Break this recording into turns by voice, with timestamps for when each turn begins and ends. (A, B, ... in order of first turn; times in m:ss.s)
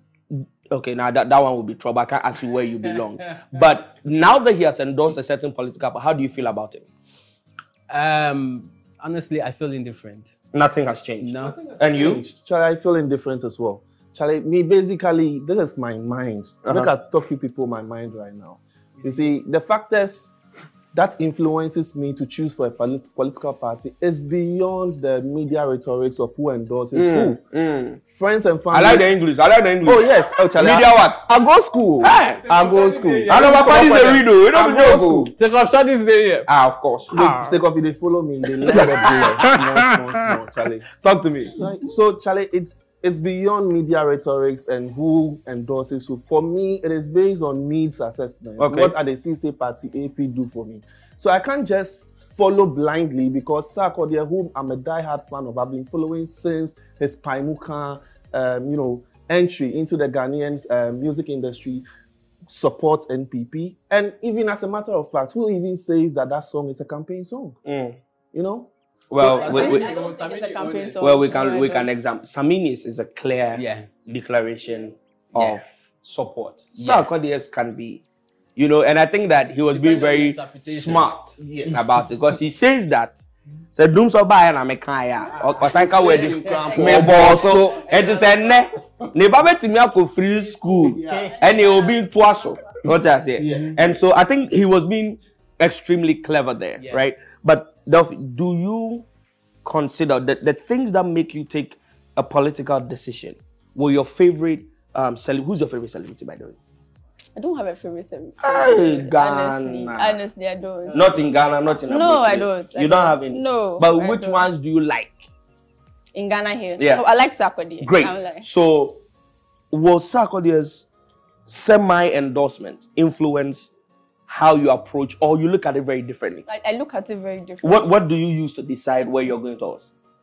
0:00.3-0:06.8 A
0:07.9-0:10.3 B
0:10.5-0:12.2 A
0:11.2-0:11.5 B
0:11.3-0:20.4 C
0:16.6-0:16.9 A
0:19.0-0:19.3 B
0:20.9-0:27.4 C
0:26.9-0:28.0 A
0:28.1-0:29.1 C
0:28.7-0:31.2 A
0:29.8-0:35.3 C
0:32.0-0:32.4 A
0:32.0-0:34.2 B
0:33.3-0:35.3 A
0:35.4-0:36.5 B
0:36.5-0:37.6 A
0:37.1-0:40.8 C
0:38.7-0:40.3 A
0:40.9-0:41.6 A
0:41.5-1:01.8 C
0:48.6-0:48.9 A
1:02.5-1:07.6 C
1:07.6-1:08.0 A
1:08.3-1:09.7 C
1:09.1-1:09.9 A
1:09.2-1:11.9 D
1:09.4-1:11.0 B
1:11.0-1:18.0 A
1:13.5-1:13.9 B
1:15.3-1:15.6 B
1:16.8-1:17.1 B
1:18.6-1:39.0 A
1:19.7-1:21.1 B
1:21.4-1:22.0 C
1:25.3-1:28.6 D
1:25.4-1:28.8 B
1:25.6-1:28.2 C
1:30.6-1:31.3 C
1:30.8-1:31.4 B
1:31.3-1:33.0 D
1:33.4-1:33.8 C
1:33.4-1:33.8 B
1:36.8-1:37.0 B
1:39.6-1:46.6 A
1:47.3-1:51.1 D
1:48.4-1:50.2 A
1:50.8-1:51.7 B
1:50.9-1:55.3 A
1:51.9-1:54.5 D
1:56.1-1:58.5 D
1:56.8-1:57.0 A
1:57.8-1:59.0 A
1:59.7-2:00.8 A
2:01.5-2:03.7 A
2:04.3-2:06.4 A
2:06.4-2:07.9 D
2:07.6-2:09.9 A